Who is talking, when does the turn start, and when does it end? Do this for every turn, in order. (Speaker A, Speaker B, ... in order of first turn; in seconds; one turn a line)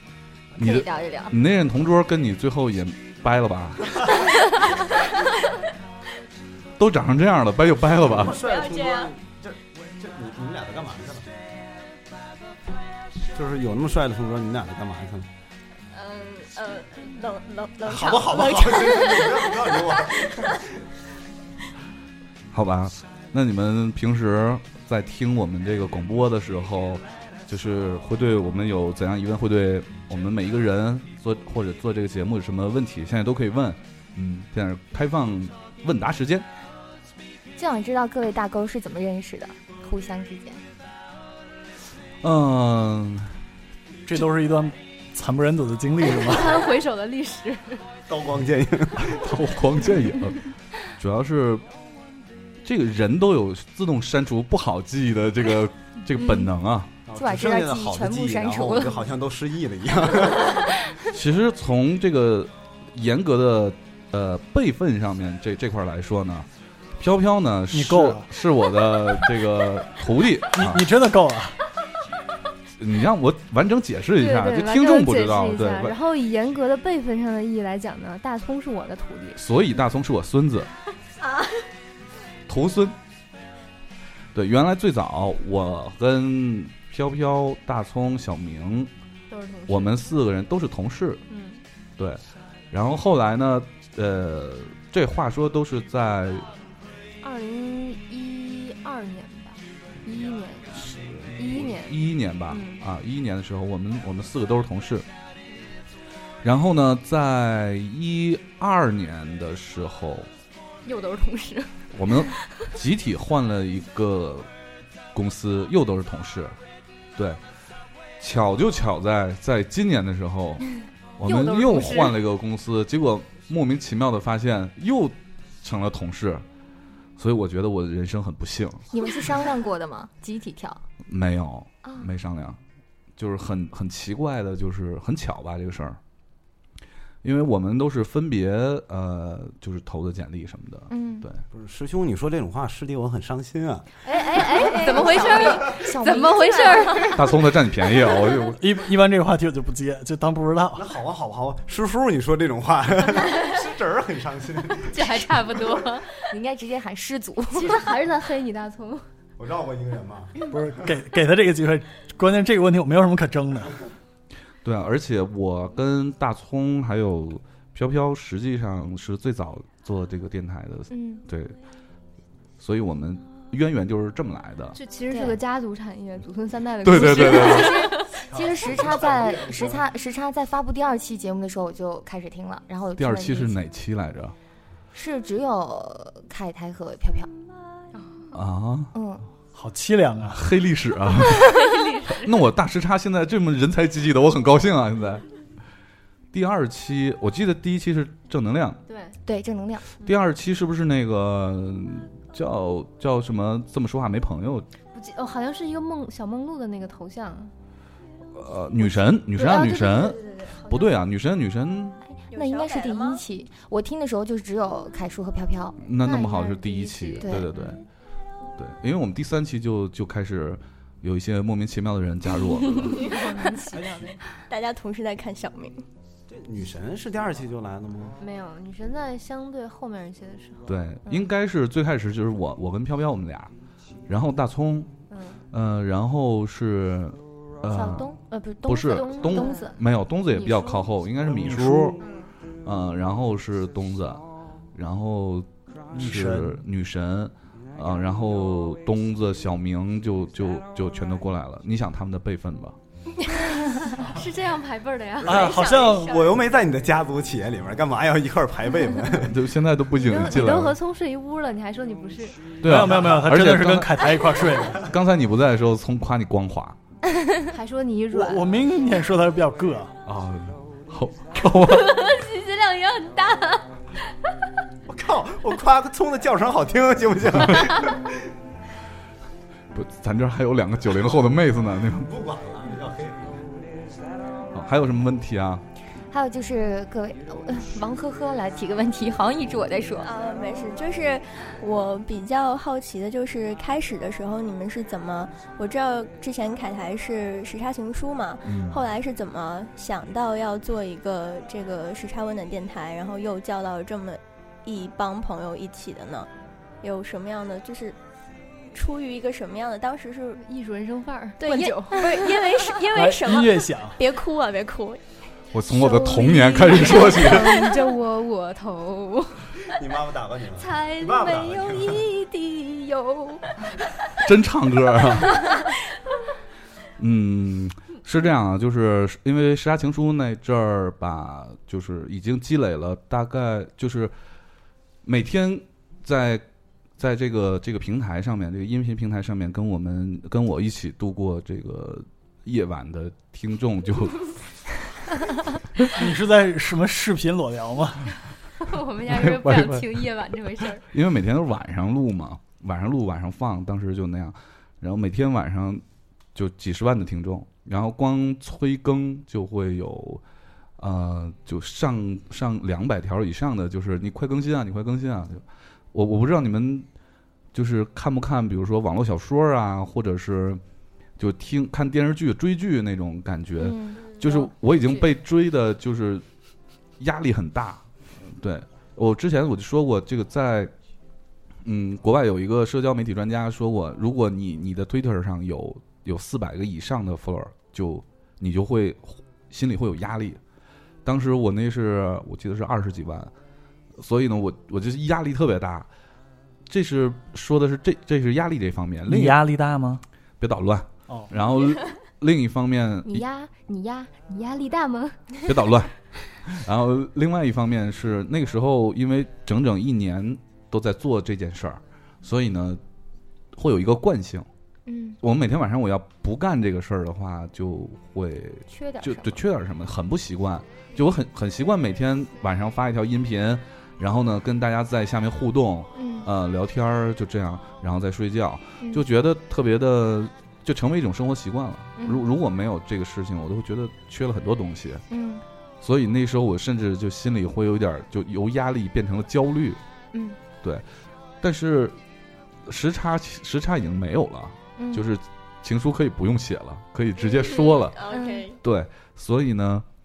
Speaker A: 0.6-4.0
Speaker B: 0.6-1.3
Speaker A: 6.8-8.4
Speaker C: 8.0-11.3
Speaker D: 8.3-9.1
Speaker C: 13.3-15.3
Speaker D: 15.9-19.9
Speaker C: 17.8-20.7
Speaker A: 22.5-36.5
Speaker B: 37.5-40.6
Speaker A: 42.2-43.3
Speaker E: 44.0-46.6
Speaker F: 46.1-47.8
Speaker C: 48.1-49.2
Speaker A: 49.1-50.4
Speaker A: 51.0-51.6
Speaker A: 52.6-56.9
Speaker C: 57.1-60.8
Speaker B: 57.1-59.0
Speaker A: 61.1-66.5
Speaker A: 67.0-70.8
Speaker E: 67.7-68.3
Speaker E: 70.5-71.6
Speaker A: 72.8-76.0
Speaker F: 74.2-79.4
Speaker A: 79.3-80.7
Speaker D: 81.2-81.6
Speaker A: 82.5-83.0
Speaker A: 84.3-88.9
Speaker F: 89.3-90.0
Speaker A: 89.7-91.2
Speaker F: 91.3-91.6
Speaker A: 92.0-96.5
Speaker F: 97.2-102.0
Speaker A: 100.7-105.0
Speaker F: 102.5-102.8
Speaker A: 106.4-110.3
Speaker F: 110.8-112.4
Speaker A: 111.9-114.5
Speaker A: 115.1-116.5
Speaker A: 118.2-126.4
Speaker F: 121.2-122.2
Speaker A: 127.2-128.8
Speaker B: 128.9-130.8
Speaker A: 131.1-132.6
Speaker B: 131.8-132.1
Speaker A: 133.2-136.0
Speaker A: 137.2-141.4
Speaker B: 140.9-141.3
Speaker C: 141.5-143.9
Speaker F: 144.1-147.2
Speaker B: 144.3-147.2
Speaker A: 147.1-148.6
Speaker E: 148.6-150.8
Speaker C: 150.7-155.2
Speaker F: 154.9-156.1
Speaker B: 156.2-157.9
Speaker F: 157.5-159.0
Speaker C: 159.4-160.5
Speaker E: 160.5-163.7
Speaker A: 164.6-171.6
Speaker B: 170.9-171.2
Speaker A: 172.6-174.8
Speaker F: 174.7-178.2
Speaker B: 175.1-175.4
Speaker A: 176.8-177.9
Speaker B: 176.9-183.6
Speaker C: 178.3-179.8
Speaker A: 183.0-184.3
Speaker B: 184.9-187.3
Speaker A: 188.3-188.9
Speaker B: 188.9-189.2
Speaker E: 189.5-190.5
Speaker A: 190.3-195.2
Speaker F: 191.3-192.3
Speaker A: 196.3-198.8
Speaker F: 198.9-199.2
Speaker B: 199.2-199.9
Speaker A: 200.0-204.7
Speaker F: 204.9-207.5
Speaker A: 208.3-212.0
Speaker F: 209.3-211.0
Speaker B: 212.2-215.8
Speaker D: 212.3-213.2
Speaker A: 215.8-217.8
Speaker F: 216.0-217.8
Speaker B: 217.2-217.5
Speaker A: 218.6-223.1
Speaker F: 222.7-224.1
Speaker D: 224.5-225.8
Speaker C: 226.3-228.2
Speaker F: 228.2-231.3
Speaker A: 230.7-233.5
Speaker A: 234.1-234.9
Speaker F: 235.1-235.4
Speaker A: 235.5-238.1
Speaker B: 237.7-239.7
Speaker F: 238.6-240.9
Speaker A: 238.6-242.0
Speaker E: 241.2-242.0
Speaker A: 242.6-244.2
Speaker A: 244.7-252.8
Speaker E: 245.9-246.6
Speaker F: 253.5-256.1
Speaker E: 255.2-256.3
Speaker D: 255.3-256.2
Speaker C: 256.0-259.4
Speaker A: 259.2-260.8
Speaker F: 259.9-262.4
Speaker A: 262.6-264.1
Speaker E: 262.6-264.9
Speaker A: 264.8-266.8
Speaker F: 267.5-268.4
Speaker E: 268.1-269.9
Speaker A: 270.1-272.1
Speaker F: 271.6-273.7
Speaker C: 274.9-278.3
Speaker A: 279.7-282.1
Speaker C: 282.0-283.4
Speaker A: 284.5-285.6
Speaker B: 286.1-290.1
Speaker D: 290.0-306.3
Speaker A: 298.4-298.8
Speaker D: 306.8-307.9
Speaker D: 308.7-310.4
Speaker F: 310.4-312.1
Speaker D: 311.4-315.0
Speaker E: 312.9-314.0
Speaker A: 315.5-317.7
Speaker F: 315.7-319.5
Speaker C: 319.7-322.1
Speaker F: 320.6-323.4
Speaker A: 324.2-325.5
Speaker A: 327.0-334.1
Speaker A: 335.0-336.4
Speaker A: 337.0-344.3
Speaker E: 345.9-348.1
Speaker F: 348.6-350.8
Speaker A: 349.1-349.9
Speaker A: 350.8-355.8
Speaker A: 356.3-360.2
Speaker A: 360.8-366.9
Speaker A: 367.5-370.6
Speaker A: 371.2-376.2
Speaker B: 373.6-374.0
Speaker A: 377.0-380.7
Speaker A: 381.6-390.4
Speaker A: 391.0-393.3
Speaker A: 393.9-395.9
Speaker A: 396.7-399.4
Speaker E: 399.1-400.0
Speaker A: 400.4-403.2
Speaker E: 401.1-401.3
Speaker F: 403.0-405.3
Speaker A: 405.4-412.8
Speaker A: 413.5-414.5
Speaker B: 414.9-415.2
Speaker A: 415.2-435.0
Speaker B: 418.7-419.4
Speaker B: 425.9-426.3
Speaker B: 435.1-435.4
Speaker A: 435.8-439.8
Speaker B: 440.1-440.4
Speaker A: 441.4-441.9
Speaker A: 442.6-448.0
Speaker B: 444.8-445.1
Speaker D: 447.3-448.6
Speaker B: 448.1-448.5
Speaker A: 448.6-449.8